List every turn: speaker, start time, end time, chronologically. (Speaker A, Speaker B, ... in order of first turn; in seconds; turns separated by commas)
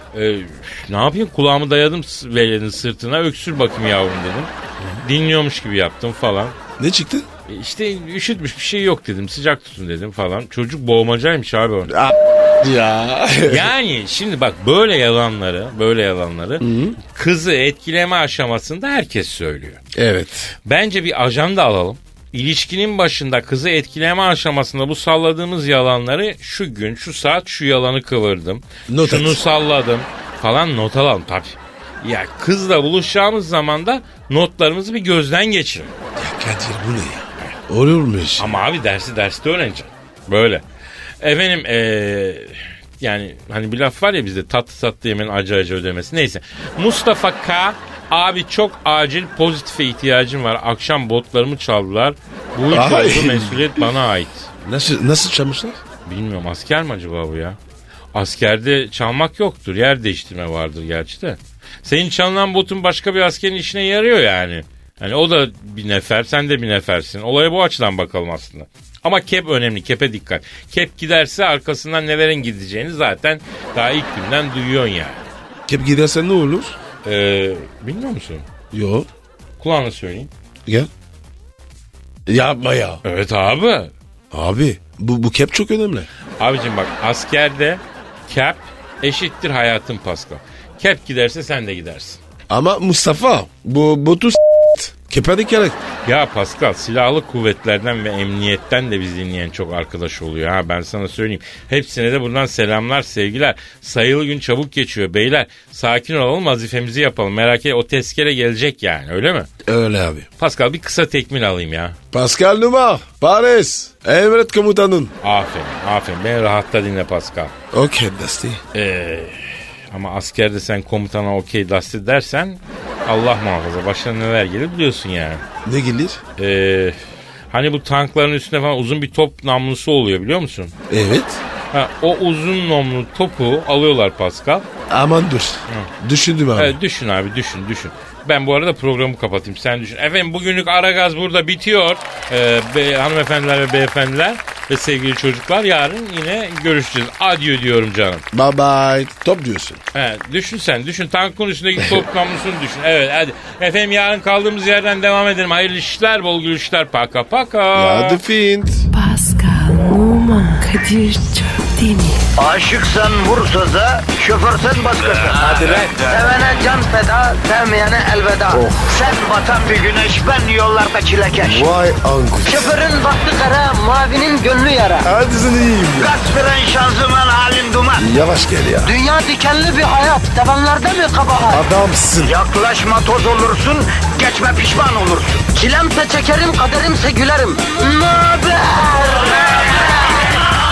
Speaker A: 0.1-4.5, Speaker B: 4.8-5.0, Speaker A: 5.0-6.5, Speaker B: 6.8-7.3, Speaker A: 7.5-12.0, Speaker B: 11.9-13.7, Speaker A: 13.4-19.8, Speaker B: 16.6-17.0, Speaker B: 19.9-20.6, Speaker A: 20.6-35.9, Speaker B: 28.9-29.4, Speaker B: 36.1-38.6, Speaker A: 38.4-40.6, Speaker A: 41.2-54.5, Speaker B: 52.7-53.9, Speaker B: 54.6-55.8, Speaker A: 56.0-57.6, Speaker A: 58.1-75.3, Speaker B: 75.7-76.8, Speaker A: 77.0-78.5, Speaker B: 78.7-79.1, Speaker A: 79.6-80.3, Speaker B: 82.3-83.0, Speaker A: 83.0-83.9, Speaker B: 84.3-86.1, Speaker A: 86.4-92.2, Speaker B: 92.5-95.8, Speaker A: 96.0-109.5, Speaker B: 109.6-110.3, Speaker A: 110.4-112.0, Speaker B: 112.1-115.1, Speaker A: 115.2-117.5, Speaker B: 117.7-118.6, Speaker A: 118.7-119.4, Speaker A: 119.9-125.4, Speaker B: 125.6-126.2, Speaker A: 126.4-127.0, Speaker A: 127.5-130.7, Speaker B: 130.9-131.4, Speaker A: 131.7-134.7, Speaker B: 134.9-136.7, Speaker A: 136.5-148.2, Speaker B: 148.3-149.8, Speaker A: 149.9-158.2, Speaker B: 157.7-158.9, Speaker C: 158.9-162.2, Speaker D: 162.4-171.8, Speaker B: 168.5-168.9, Speaker B: 171.4-172.7, Speaker D: 172.4-175.1, Speaker B: 175.0-176.1, Speaker D: 176.0-178.1, Speaker B: 178.0-178.9, Speaker D: 178.8-181.6, Speaker B: 181.5-182.3, Speaker D: 182.2-190.3